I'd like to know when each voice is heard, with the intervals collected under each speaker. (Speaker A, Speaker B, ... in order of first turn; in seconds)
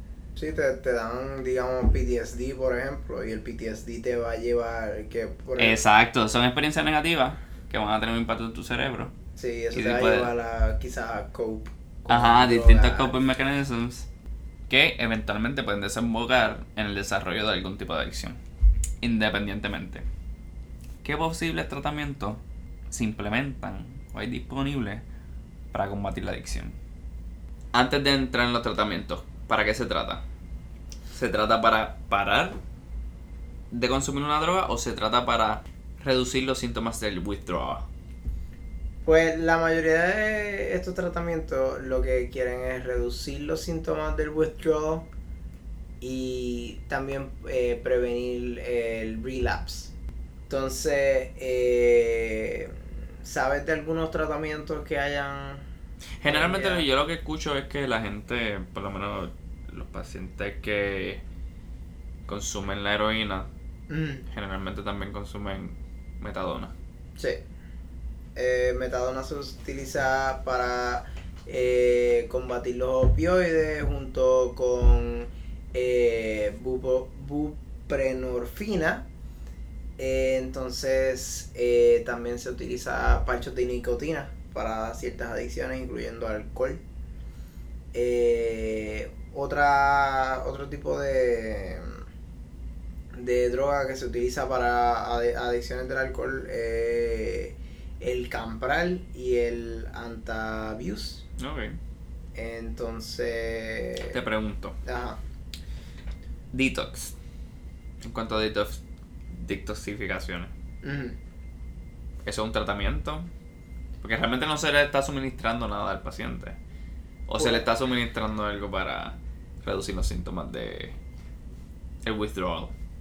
Speaker A: 0.4-5.8, 9.4-13.1, 39.0-45.1, 46.0-49.9, 50.5-55.7, 56.2-56.9, 63.9-64.2, 67.2-67.4, 68.3-79.1, 80.0-86.8, 87.9-92.0, 93.1-101.3, 102.3-104.2, 104.8-105.2, 110.8-111.2, 117.4-117.6
Speaker B: 5.6-9.2, 9.7-10.3, 12.1-14.1, 14.7-18.4, 19.0-20.1, 21.0-25.0, 25.7-26.8, 27.7-30.2, 31.1-32.6, 33.7-37.9, 56.2-61.2, 62.3-63.5, 64.3-66.8, 101.4-101.8, 104.0-104.8, 106.5-107.2, 108.0-108.8, 109.3-110.5, 112.2-113.3, 114.0-116.6, 117.3-121.0, 122.0-122.7